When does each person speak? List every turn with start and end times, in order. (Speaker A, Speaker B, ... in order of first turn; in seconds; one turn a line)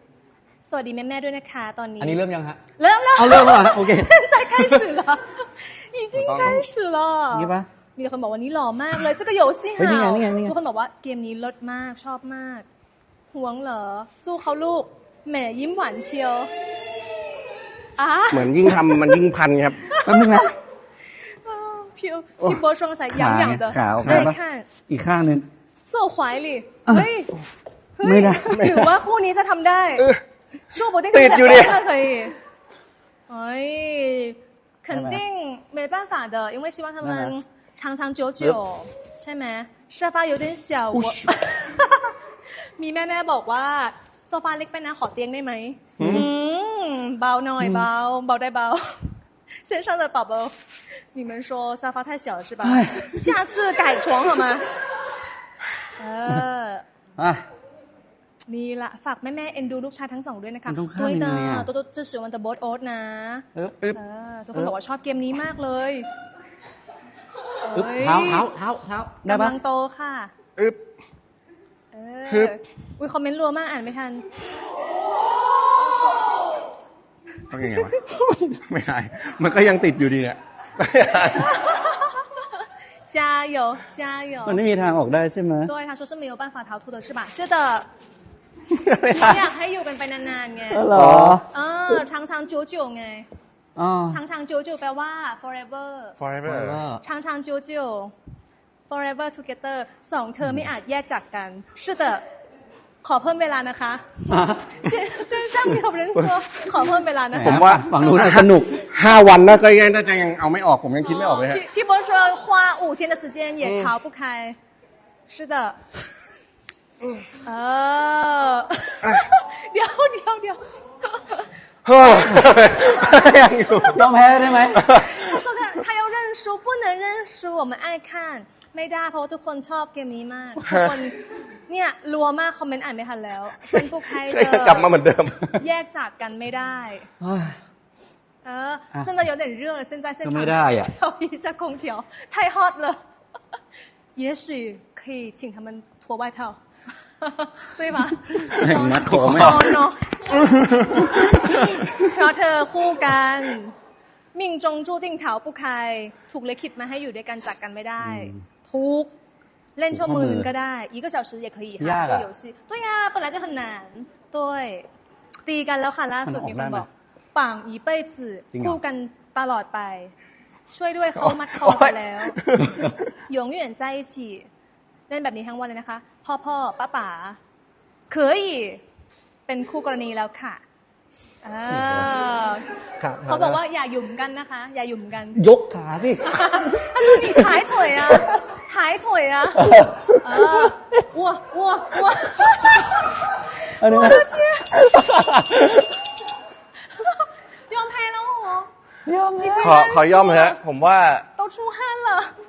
Speaker A: 0.6-12.7
Speaker B: 2.0-2.6
Speaker B: 3.2-4.7
Speaker C: 6.2-6.5
Speaker B: 6.3-6.6
Speaker B: 7.3-7.7
Speaker B: 9.8-10.6
Speaker A: 13.3-16.5
Speaker A: 18.0-19.2
Speaker C: 18.3-19.9
Speaker A: 19.8-20.6
Speaker B: 20.0-20.5
Speaker A: 21.2-24.7
Speaker B: 23.1-25.5
Speaker C: 24.0-24.3
Speaker A: 25.9-27.4
Speaker A: 27.9-30.1
Speaker B: 28.0-28.8
Speaker C: 28.5-28.9
Speaker A: 30.7-32.3
Speaker C: 31.1-31.8
Speaker A: 33.3-42.2
Speaker B: 34.9-35.2
Speaker B: 37.0-37.3
Speaker C: 41.0-41.3
Speaker A: 42.8-50.5
Speaker C: 46.0-46.2
Speaker B: 46.0-46.3
Speaker A: 51.1-54.6
Speaker B: 52.6-53.3
Speaker A: 56.0-56.8
Speaker B: 57.2-57.4
Speaker A: 58.5-66.1
Speaker B: 60.7-61.7
Speaker B: 63.5-63.9
Speaker A: 67.6-68.5
Speaker B: 67.7-69.6
Speaker A: 69.2-70.3
Speaker A: 71.9-74.2
Speaker C: 72.3-72.5
Speaker C: 77.5-81.5
Speaker A: 77.7-78.2
Speaker B: 78.1-78.5
Speaker A: 81.3-84.6
Speaker B: 84.4-85.7
Speaker A: 85.6-87.8
Speaker C: 88.7-89.4
Speaker A: 89.1-90.9
Speaker B: 90.7-91.5
Speaker C: 91.0-91.4
Speaker A: 91.5-93.3
Speaker B: 93.8-94.2
Speaker A: 94.1-96.2
Speaker C: 96.2-96.8
Speaker B: 96.5-97.0
Speaker A: 97.0-98.1
Speaker A: 98.9-102.2
Speaker A: 103.0-107.7
Speaker B: 104.3-104.7
Speaker B: 107.3-108.8
Speaker C: 107.4-111.6
Speaker A: 111.0-114.6
Speaker C: 113.6-113.9
Speaker A: 115.3-115.8
Speaker A: 117.4-121.5
Speaker C: 121.8-124.0
Speaker A: 122.8-124.0
Speaker B: 123.9-124.9
Speaker A: 124.7-134.9
Speaker C: 124.8-125.4
Speaker C: 130.6-130.9
Speaker C: 133.7-135.5
Speaker A: 135.4-137.1
Speaker B: 137.2-137.6
Speaker A: 138.4-143.0
Speaker B: 140.2-140.9
Speaker A: 144.1-146.6
Speaker A: 147.2-153.7
Speaker B: 148.3-149.7
Speaker A: 154.3-159.1
Speaker B: 158.0-158.4
Speaker A: 159.8-164.9
Speaker B: 159.9-160.5
Speaker B: 161.8-162.3
Speaker A: 165.4-170.1
Speaker B: 166.2-166.9
Speaker B: 168.5-168.8
Speaker A: 170.7-172.4
Speaker C: 171.2-172.8
Speaker A: 173.3-174.5
Speaker A: 175.1-177.4
Speaker A: 178.1-178.8
Speaker A: 179.4-180.6
Speaker A: 181.4-185.4
Speaker C: 183.0-183.4
Speaker B: 185.3-188.2
Speaker A: 186.2-194.8
Speaker B: 189.6-190.7
Speaker B: 193.8-195.9
Speaker A: 196.9-198.7
Speaker B: 199.1-199.8
Speaker A: 199.4-200.6
Speaker C: 199.6-201.3
Speaker A: 201.3-202.3